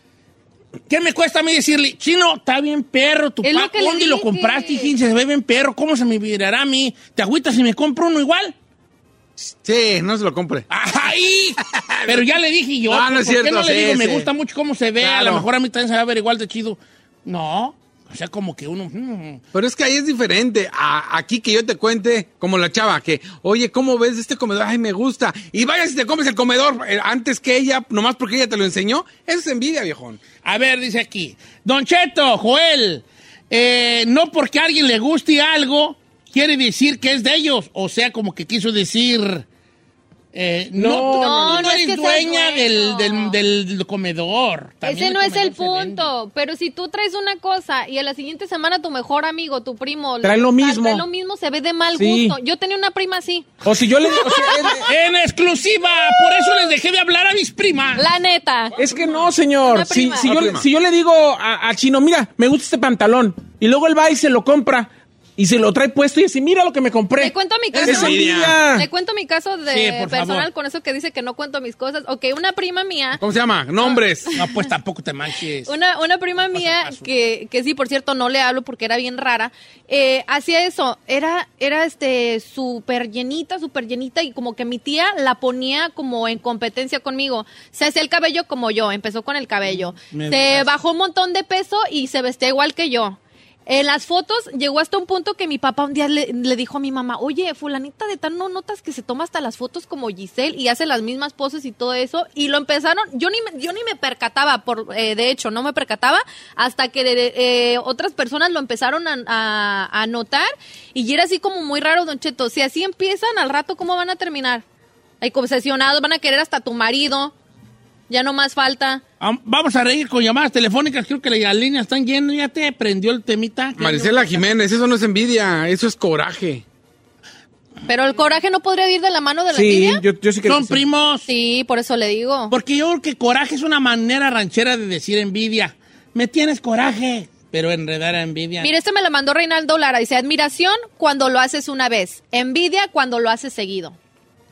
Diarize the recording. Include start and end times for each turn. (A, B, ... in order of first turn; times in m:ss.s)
0:00.9-0:08.5 A
0:03.4-0:04.9 B
0:09.4-0:10.7 C
0:10.7-0:19.4 A
0:11.7-0:12.3 C
0:12.9-0:14.3 C
0:15.0-0:15.5 C
0:19.5-0:30.2 C
0:30.4-0:39.4 A
0:40.3-0:46.1 A
0:40.7-0:41.7 D
0:41.1-0:43.4 B
0:44.8-0:53.5 B
0:50.2-0:51.0 D
0:51.9-0:52.4 D
0:53.6-0:54.9 D
0:54.0-0:54.8 B
0:54.9-0:58.0 A
0:58.0-0:58.8 B
0:58.7-1:08.9 D
0:59.6-1:00.4 B
1:00.2-1:00.6 C
1:07.2-1:13.2 B
1:07.8-1:08.6 C
1:09.6-1:10.5 A
1:13.2-1:14.3 C
1:14.3-1:15.7 A
1:15.6-1:54.6 B
1:16.4-1:17.1 A
1:30.1-1:30.7 A
1:55.2-1:57.3 B
1:58.1-1:59.0 B
1:59.2-2:04.5 A
2:03.8-2:06.6 C
2:07.9-2:10.0 B
2:09.5-2:10.8 D
2:10.4-2:11.3 A
2:11.3-2:12.5 B
2:12.5-2:18.7 A
2:18.6-2:24.0 B